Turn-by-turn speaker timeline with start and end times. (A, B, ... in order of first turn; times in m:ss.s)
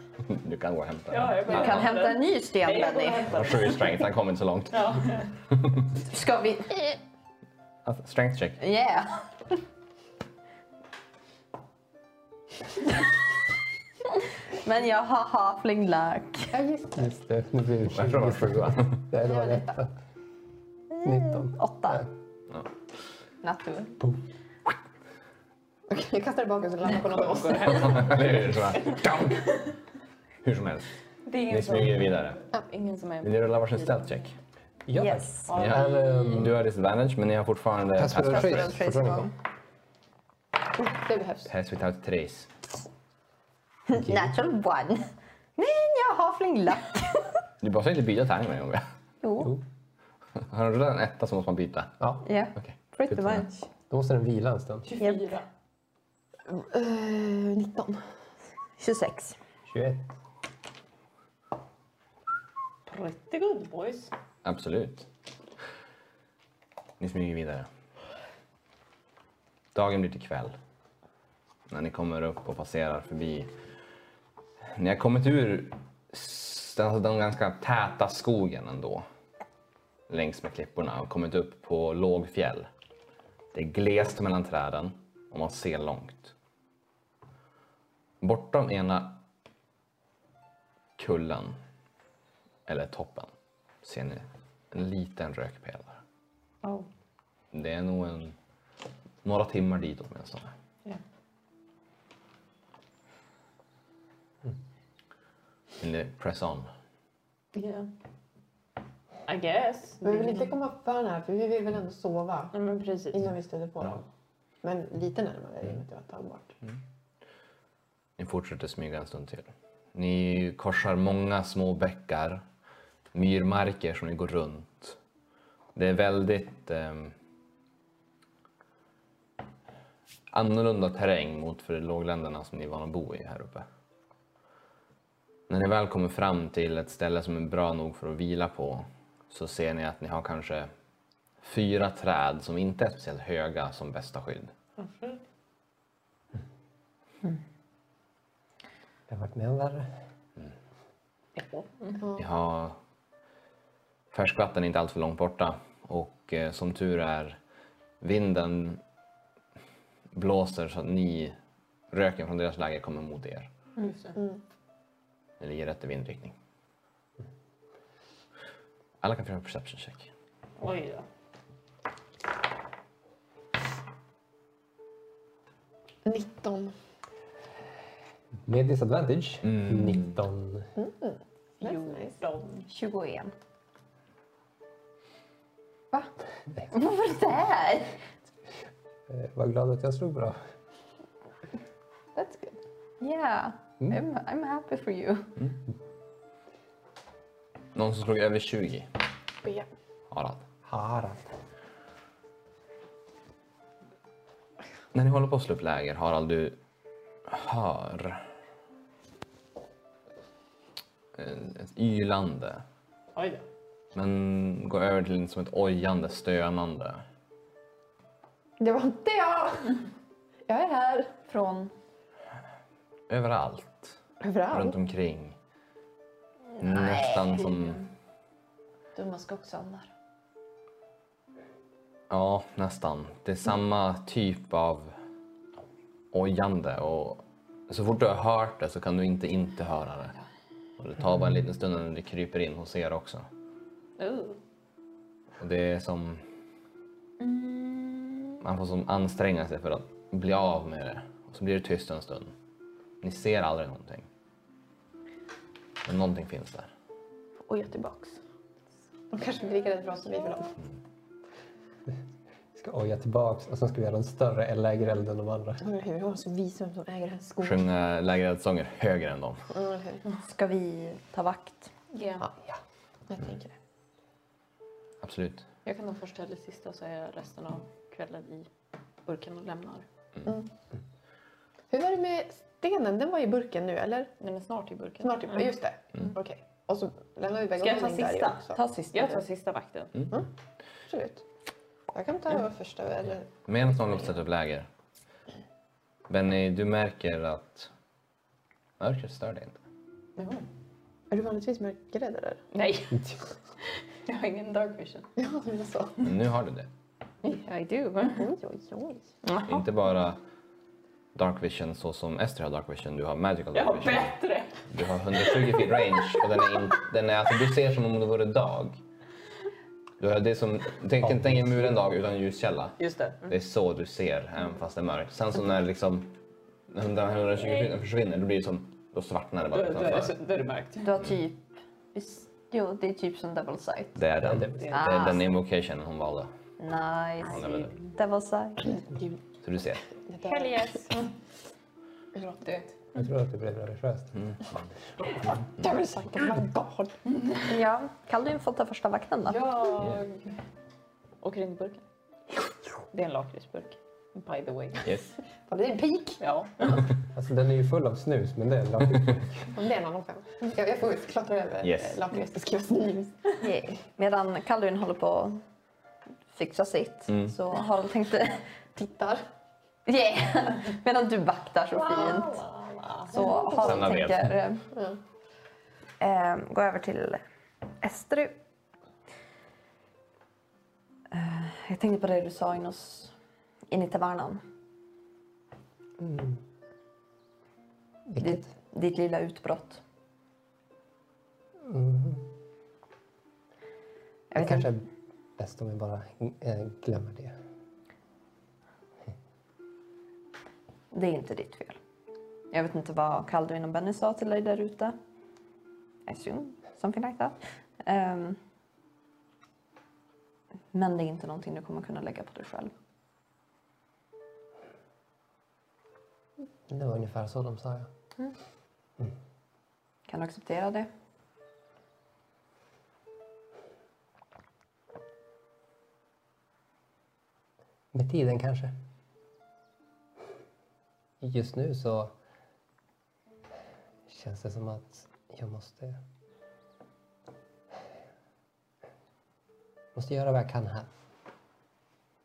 0:00.3-0:01.8 A
0:01.1-0:04.0 B
0:01.5-0:03.2 C
0:03.3-0:05.7 A
0:04.7-0:05.3 B
0:06.1-0:06.9 C
0:07.8-0:08.6 A
0:08.6-0:09.2 C
0:14.6-0:16.5 C
0:16.5-0:17.0 D
0:16.9-0:19.9 E
0:17.9-0:19.0 A
0:19.2-0:19.8 D
0:21.0-0:22.1 E
0:21.4-0:22.0 C
0:23.4-0:24.0 C
0:25.9-0:28.2 D
0:27.2-0:28.3 B
0:27.6-0:29.5 A
0:30.4-0:30.9 A
0:31.2-0:34.2 B
0:31.5-0:32.4 A
0:33.2-0:34.3 A
0:34.9-0:36.6 E
0:34.9-0:35.5 C
0:35.5-0:36.4 B
0:35.5-0:38.8 A
0:38.0-0:39.3 E
0:38.1-0:39.3 C
0:40.7-0:41.5 D
0:41.5-0:42.5 A
0:43.9-0:47.2 C
0:43.9-0:44.3 E
0:47.6-0:48.8 A
0:49.2-0:49.5 C
0:50.5-0:52.0 A
0:52.2-0:53.7 C
0:52.6-0:53.5 A
0:53.9-0:54.9 E
0:54.8-0:55.5 B
0:55.0-0:55.3 C
0:56.5-0:58.0 D
0:58.8-0:59.4 C
0:59.7-1:00.1 E
1:02.8-1:04.1 B
1:04.4-1:05.1 A
1:07.0-1:07.7 A
1:09.7-1:10.6 A
1:11.7-1:13.5 A
1:14.8-1:19.0 A
1:20.1-1:22.7 A
1:23.5-1:26.3 A
1:28.2-1:29.2 A
1:31.0-1:31.6 A
1:32.7-1:33.3 A
1:33.8-1:36.0 A
1:36.6-1:36.9 B
1:37.5-1:38.3 A
1:39.2-1:40.5 A
1:45.8-1:46.7 A
1:47.5-1:47.9 B
1:49.2-1:50.5 B
1:50.0-1:52.5 D
1:52.5-1:53.2 B
1:53.1-1:54.1 D
1:54.6-1:56.6 D
1:58.2-2:02.4 A
2:03.1-2:05.0 A
2:05.7-2:07.1 A
2:10.3-2:13.6 A
2:15.5-2:20.7 A
2:21.4-2:24.5 A
2:24.8-2:25.2 B
2:29.1-2:29.9 E
2:31.4-2:32.0 B
2:32.0-2:32.2 D
2:32.2-2:32.8 A
2:34.1-2:37.4 A
2:38.0-2:38.8 A
2:40.1-2:41.4 A
2:41.9-2:43.5 A
2:43.8-2:44.2 B
2:45.4-2:46.4 A
2:49.0-2:50.1 A
2:50.6-2:51.0 B
2:56.0-2:56.7 D
2:58.4-3:00.7 E
2:59.4-3:00.1 A
3:00.8-3:02.2 D
3:01.6-3:02.4 B
3:02.4-3:03.3 C
3:06.7-3:08.0 C
3:09.1-3:10.4 E
3:12.1-3:12.6 D
3:13.0-3:15.4 C
3:17.7-3:18.9 A
3:20.1-3:20.4 A
3:20.6-3:21.3 E
3:24.9-3:26.6 A
3:27.3-3:28.2 A
3:31.1-3:32.6 A
3:33.1-3:33.4 B
3:33.9-3:37.0 A
3:38.6-3:39.8 D
3:40.5-3:41.1 D
3:41.3-3:41.7 C
3:43.1-3:44.0 A
3:44.2-3:44.8 D
3:44.5-3:45.4 A
3:46.6-3:47.8 C
3:46.6-3:47.8 A
3:49.0-3:49.9 D
3:52.1-3:54.9 A
3:56.1-4:00.1 A
4:00.8-4:03.3 A
4:04.0-4:04.4 B
4:05.4-4:06.2 A
4:08.4-4:12.3 A
4:13.0-4:14.1 A
4:15.8-4:16.7 A
4:17.5-4:18.2 B
4:19.1-4:20.6 D
4:22.5-4:25.6 E
4:25.6-4:27.6 D
4:27.4-4:29.4 A
4:29.5-4:30.0 D
4:30.2-4:31.7 C
4:31.9-4:32.2 B
4:33.1-4:33.5 D
4:35.0-4:35.4 A
4:35.6-4:38.5 B
4:39.0-4:39.8 B
4:41.7-4:44.1 D
4:44.2-4:45.5 B
4:45.0-4:48.6 D
4:47.6-4:49.9 B
4:50.9-4:51.2 D
4:51.9-4:54.2 D
4:53.5-4:54.7 A
4:56.1-4:57.7 A
4:58.8-4:59.6 A
5:00.2-5:00.4 B
5:01.1-5:02.4 D
5:02.5-5:03.2 B
5:04.0-5:05.1 B
5:05.2-5:06.1 D
5:06.0-5:06.7 A
5:07.2-5:08.3 B
5:08.1-5:09.1 D
5:09.2-5:09.6 C
5:09.4-5:10.2 A
5:11.1-5:14.1 A
5:13.5-5:16.4 B
5:14.7-5:18.8 A
5:20.0-5:26.1 A
5:21.0-5:21.7 E
5:22.8-5:23.3 B
5:26.7-5:30.1 A
5:27.4-5:27.7 B
5:29.5-5:31.0 B
5:30.8-5:34.0 C
5:34.0-5:36.3 A
5:34.2-5:34.8 E
5:34.6-5:35.0 B
5:34.7-5:35.2 C
5:36.6-5:38.7 C
5:37.3-5:37.7 A
5:39.4-5:39.8 A
5:40.0-5:40.7 D
5:40.2-5:41.1 B
5:42.2-5:42.7 B
5:42.9-5:44.4 E
5:45.3-5:47.0 D
5:47.4-5:49.4 C
5:49.3-5:50.2 B
5:51.2-5:51.8 B
5:52.9-5:54.9 B
5:54.8-5:55.1 A
5:55.5-5:56.2 D
5:56.2-5:56.8 B
5:57.1-5:59.5 E
5:59.5-6:03.4 D
6:01.6-6:02.0 A
6:03.4-6:05.4 C
6:06.3-6:08.4 C
6:07.1-6:07.3 A
6:08.8-6:09.2 D
6:09.8-6:12.4 C
6:11.8-6:13.7 B
6:13.1-6:14.6 C
6:13.6-6:14.3 A
6:14.7-6:15.0 D
6:16.0-6:17.2 C
6:17.8-6:18.4 C
6:21.1-6:23.1 C
6:23.7-6:24.4 C
6:26.0-6:26.4 E
6:28.1-6:28.5 E
6:28.2-6:29.8 C
6:31.6-6:32.3 E
6:34.3-6:34.7 C
6:34.4-6:34.8 E
6:35.4-6:37.4 E
6:40.9-6:41.8 C
6:42.5-6:45.0 C
6:46.0-6:48.4 C
6:50.7-6:52.7 C
6:56.7-6:57.9 E
7:00.1-7:00.9 C
7:07.9-7:08.7 E
7:11.2-7:12.1 E
7:14.1-7:16.0 E
7:19.9-7:20.9 E